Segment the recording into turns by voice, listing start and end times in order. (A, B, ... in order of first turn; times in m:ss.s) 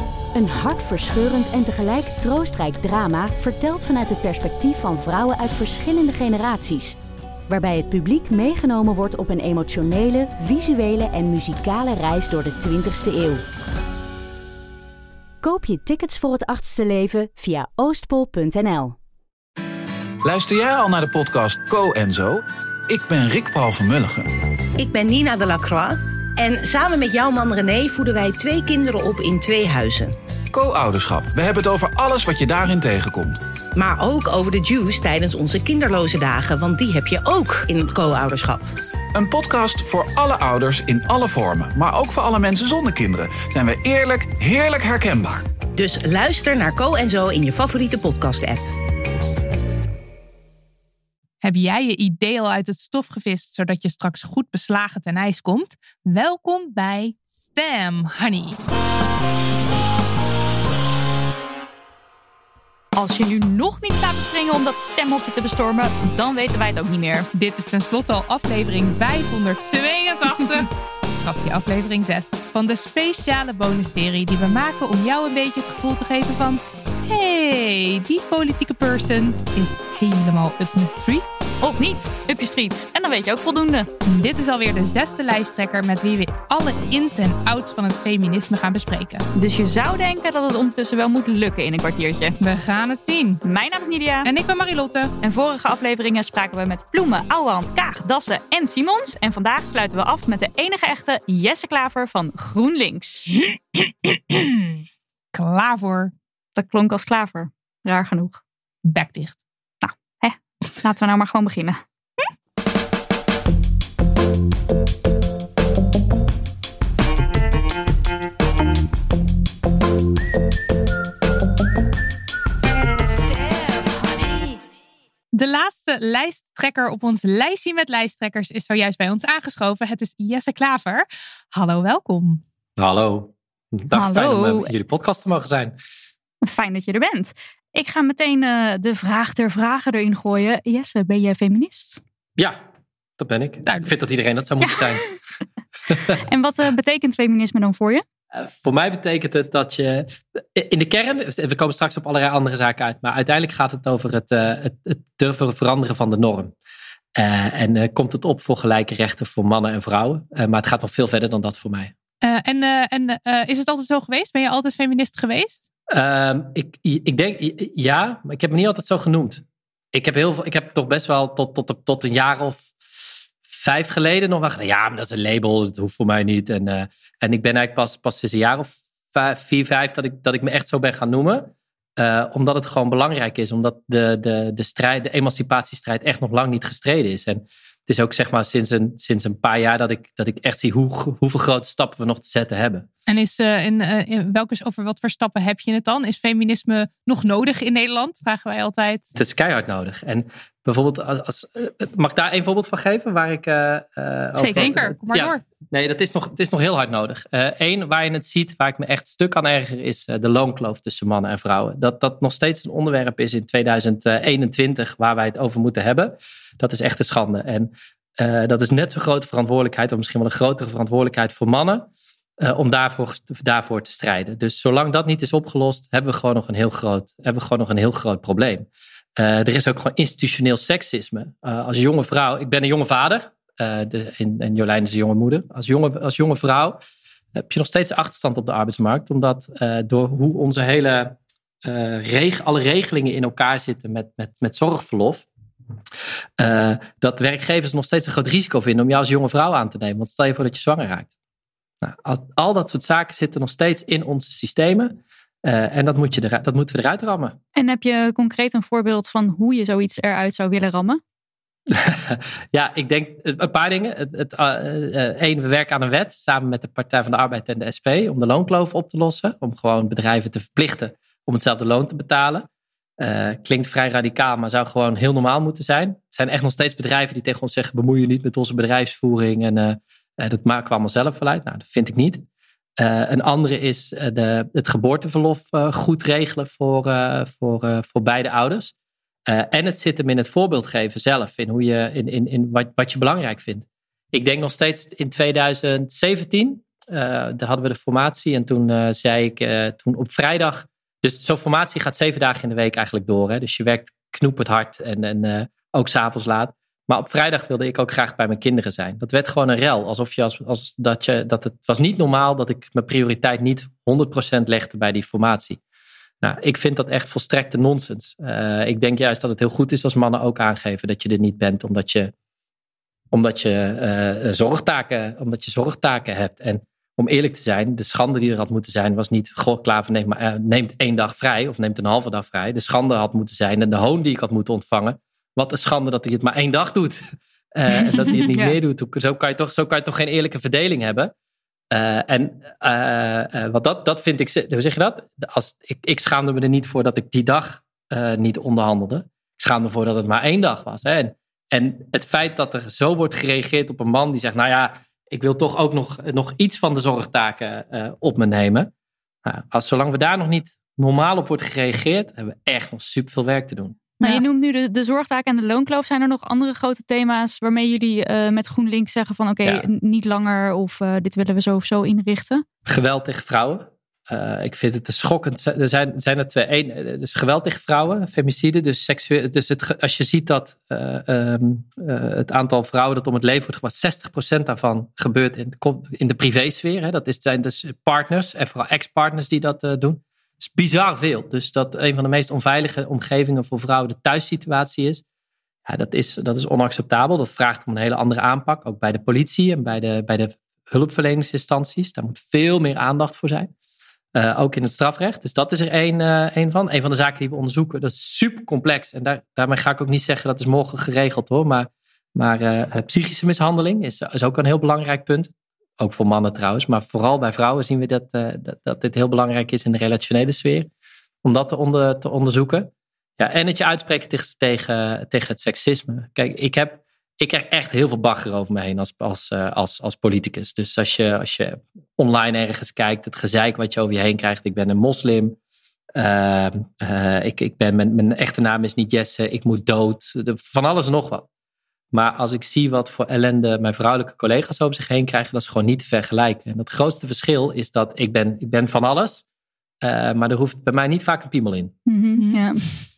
0:00.4-0:07.0 A
0:07.5-0:13.4 A
0:15.4-0:19.0 A
0:20.2-0:24.3 B
0:24.8-0:30.2 C
0:30.5-0:33.4 B
0:33.8-0:38.7 C
0:39.1-0:45.5 B
0:45.7-0:48.6 C
0:51.4-0:58.6 D
1:03.0-1:07.3 E
1:07.3-1:21.4 D
1:21.6-1:23.9 E
1:24.0-1:29.2 D
1:29.4-1:32.4 E
1:32.4-1:33.4 D
1:33.4-1:34.3 E
1:34.2-1:35.1 D
1:35.2-1:43.4 E
1:43.8-1:44.8 D
1:45.3-1:46.1 D
1:46.6-1:48.4 E
1:48.8-1:49.4 D
1:49.8-1:51.8 E
2:03.2-2:04.6 E
2:05.3-2:12.4 D
2:12.8-2:15.8 F
2:13.9-2:14.7 E
2:16.4-2:22.0 E
2:23.2-2:25.1 F
2:24.6-2:25.1 E
2:26.1-2:28.0 E
2:28.3-2:36.5 F
2:37.2-2:41.9 F
2:42.2-2:45.6 D
2:45.9-2:52.8 F
2:53.5-3:12.9 F
3:13.1-3:19.1 D
3:19.2-3:41.9 F
3:24.4-3:25.4 D
3:42.4-3:56.8 F
3:57.4-4:05.3 F
4:06.4-4:11.1 F
4:11.8-4:17.4 F
4:17.6-4:21.0 E
4:21.7-4:32.5 F
4:33.0-4:42.2 F
4:42.8-4:48.7 F
4:49.3-5:15.6 F
5:16.2-5:22.1 F
5:23.1-5:37.0 F
5:37.6-5:41.1 F
5:38.1-5:38.6 E
5:41.7-5:58.7 F
5:59.2-6:03.8 F
6:04.0-6:12.4 E
6:12.7-6:35.0 F
6:35.7-6:43.5 F
6:44.2-7:00.7 F
7:01.2-7:15.4 F
7:16.0-7:21.3 F
7:21.9-7:29.2 F
7:29.8-7:31.7 F
7:31.9-7:32.7 E
7:32.2-7:32.5 D